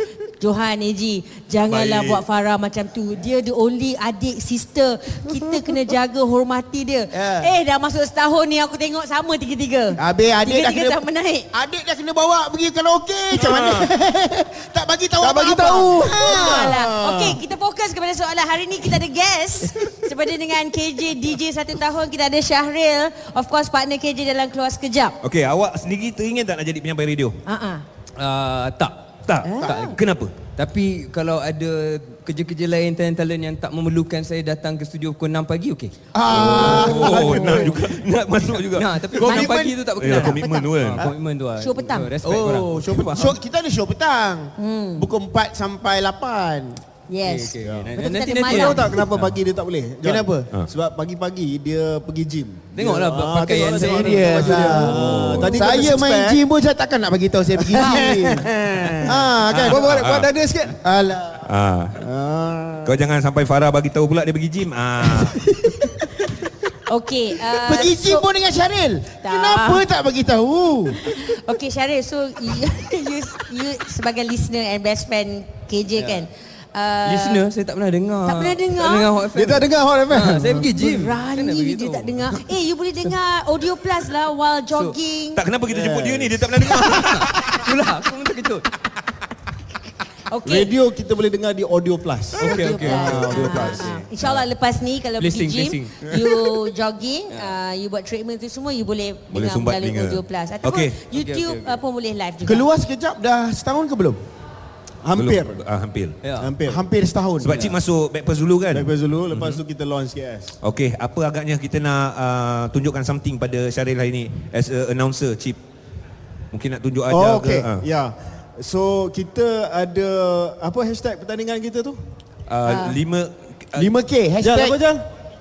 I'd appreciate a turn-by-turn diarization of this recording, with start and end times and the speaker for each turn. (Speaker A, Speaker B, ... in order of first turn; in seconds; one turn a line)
Speaker A: 0.4-11.5
Speaker B: 1.7-2.2
Speaker C: 7.1-7.5
Speaker C: 10.0-11.0
Speaker C: 11.5-16.9
Speaker B: 13.3-13.9
Speaker D: 15.2-17.3
Speaker A: 16.1-25.1
Speaker B: 25.2-27.4
Speaker A: 27.4-27.8
Speaker E: 28.2-28.9
Speaker B: 29.2-30.3
Speaker A: 29.4-29.9
Speaker E: 30.5-35.9
Speaker C: 36.1-37.8
Speaker D: 36.3-37.8
Speaker B: 36.3-41.1
Speaker E: 36.6-37.1
Speaker E: 38.6-43.3
Speaker C: 39.2-39.8
Speaker A: 40.0-40.7
Speaker A: 41.6-42.1
Speaker C: 42.2-46.8
Speaker A: 44.6-45.1
Speaker A: 47.1-48.9
Speaker E: 47.2-49.0
Speaker D: 47.6-47.9
Speaker D: 48.5-56.4
Speaker C: 50.0-50.5
Speaker E: 52.7-55.0
Speaker C: 53.6-59.8
Speaker B: 54.9-55.6
Speaker D: 57.6-60.8
Speaker B: 59.5-60.3
Speaker C: 60.7-61.4
Speaker B: 61.4-62.0
Speaker D: 62.0-62.9
Speaker B: 62.8-65.4
Speaker C: 65.1-66.3
Speaker A: 66.9-68.2
Speaker C: 67.5-71.2
Speaker A: 69.2-69.8
Speaker A: 71.0-77.4
Speaker E: 76.0-76.2
Speaker E: 77.0-82.4
Speaker A: 78.2-79.1
Speaker D: 79.3-80.7
Speaker A: 80.7-85.4
Speaker B: 85.3-87.7
Speaker E: 86.6-88.7
Speaker A: 90.3-90.7
Speaker D: 90.4-94.0
Speaker E: 92.4-93.8
Speaker A: 92.4-102.7
Speaker E: 95.2-96.3
Speaker B: 99.3-101.0
Speaker E: 101.1-101.8
Speaker C: 102.4-104.2
Speaker D: 105.0-105.6
Speaker B: 105.1-106.2
Speaker E: 106.2-106.5
Speaker D: 106.3-106.9
Speaker C: 106.6-107.5
Speaker B: 107.4-109.6
Speaker E: 107.5-107.8
Speaker D: 108.7-110.5
Speaker B: 110.6-115.6
Speaker B: 116.5-117.8
Speaker D: 117.1-122.0
Speaker B: 122.5-123.9
Speaker A: 122.7-123.0
Speaker C: 123.8-124.8
Speaker D: 124.4-125.0